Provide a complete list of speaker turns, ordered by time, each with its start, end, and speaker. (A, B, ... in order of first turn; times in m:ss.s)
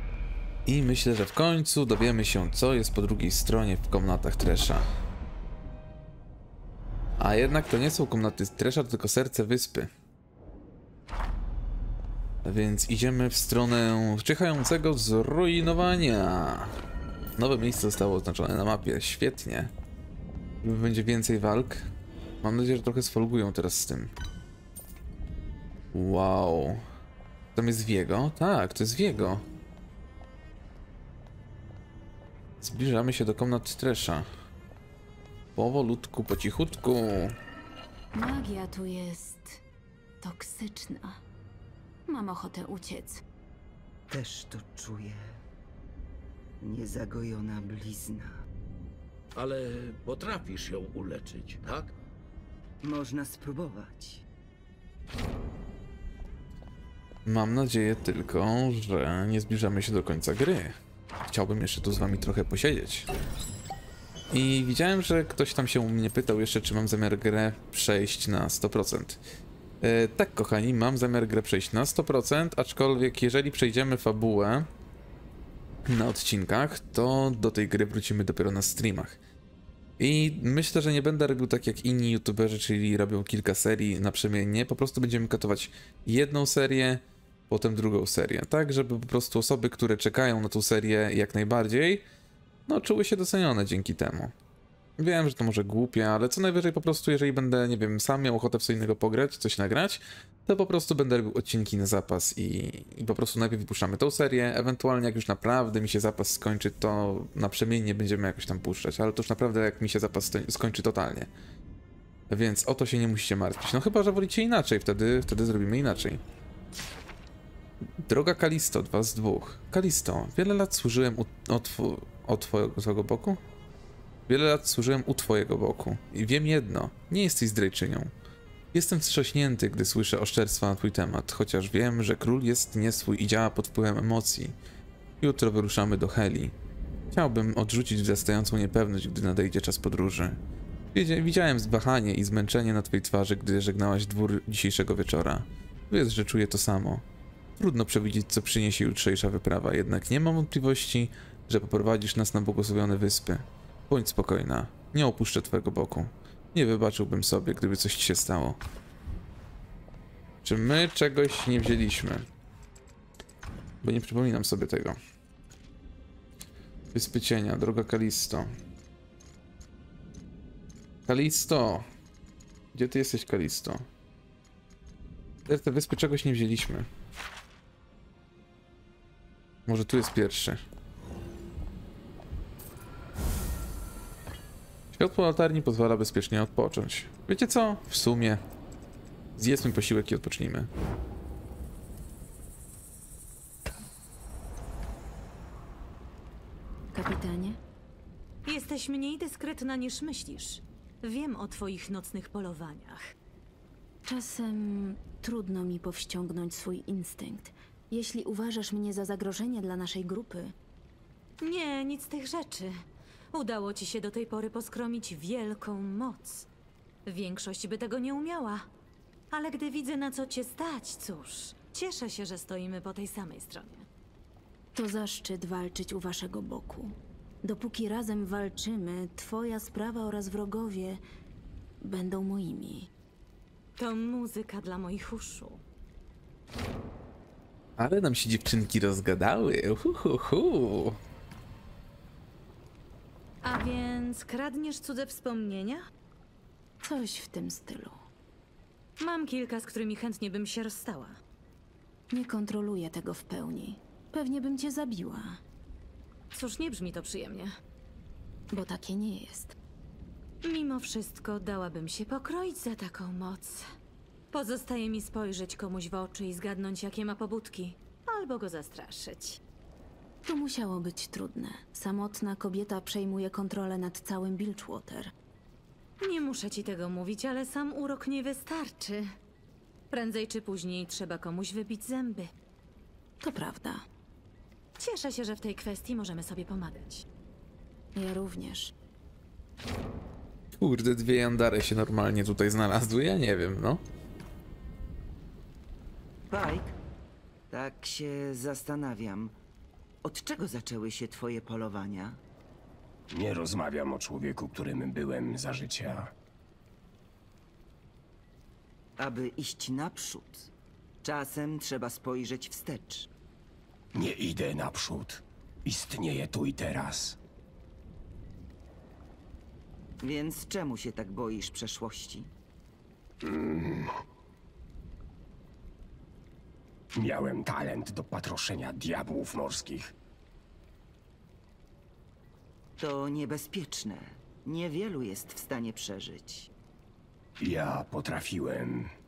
0:00.6-0:04.8 A
0:07.2-0:09.9 A
0:12.4-0:16.7 A
0:17.4-0:19.7 A
0:20.6-0:21.9 A
0:22.4-0:24.1 A
0:25.9-0:26.8 A
0:27.6-0:29.4 A
0:32.6-0:34.3 A
0:35.6-0:37.3 A
0:38.1-0:39.6 B
0:40.2-0:41.2 B
0:42.1-0:43.2 B
0:44.1-0:45.2 C
0:46.6-0:48.3 C
0:49.4-0:51.5 D
0:52.8-0:54.2 C
0:57.2-1:00.7 A
1:01.3-1:03.1 A
1:04.3-1:09.2 A
1:09.8-1:14.7 A
1:15.9-1:19.2 A
1:20.0-1:32.0 A
1:32.7-1:34.3 A
1:35.0-1:51.3 A
1:52.3-1:56.2 A
1:58.0-2:03.4 A
2:04.3-2:08.1 A
2:08.7-2:14.5 A
2:15.2-2:16.5 A
2:17.1-2:20.4 A
2:20.9-2:27.0 A
2:27.6-2:38.6 A
2:40.4-2:42.3 A
2:43.8-2:45.0 A
2:46.9-2:48.5 A
2:51.1-2:51.8 A
2:52.7-2:53.8 A
2:55.5-2:56.9 A
2:59.7-3:00.6 A
3:04.9-3:08.4 A
3:09.4-3:10.7 A
3:16.9-3:17.6 B
3:18.4-3:23.0 E
3:24.1-3:30.5 B
3:31.4-3:32.7 E
3:33.3-3:36.5 E
3:37.0-3:38.7 E
3:39.3-3:43.8 E
3:44.7-3:51.0 B
3:51.8-3:52.9 B
3:53.8-3:55.6 E
3:57.8-4:01.0 A
4:03.4-4:05.8 E
4:06.8-4:08.0 B
4:09.0-4:11.2 E
4:12.1-4:15.4 B
4:16.3-4:17.5 E
4:18.5-4:19.5 B
4:20.4-4:23.6 E
4:24.3-4:29.4 E
4:30.2-4:35.1 B
4:36.0-4:39.1 E
4:39.9-4:42.3 E
4:43.2-4:43.8 B
4:44.8-4:47.0 E
4:47.9-4:48.7 B
4:50.6-4:53.8 A
4:56.3-4:56.8 C
4:57.5-4:59.4 C
5:00.0-5:02.2 C
5:03.1-5:06.1 F
5:09.0-5:10.5 C
5:11.0-5:13.1 C
5:13.9-5:17.2 F
5:20.0-5:22.3 C
5:23.2-5:23.9 F
5:27.0-5:29.9 F
5:32.8-5:36.5 C
5:37.4-5:38.9 F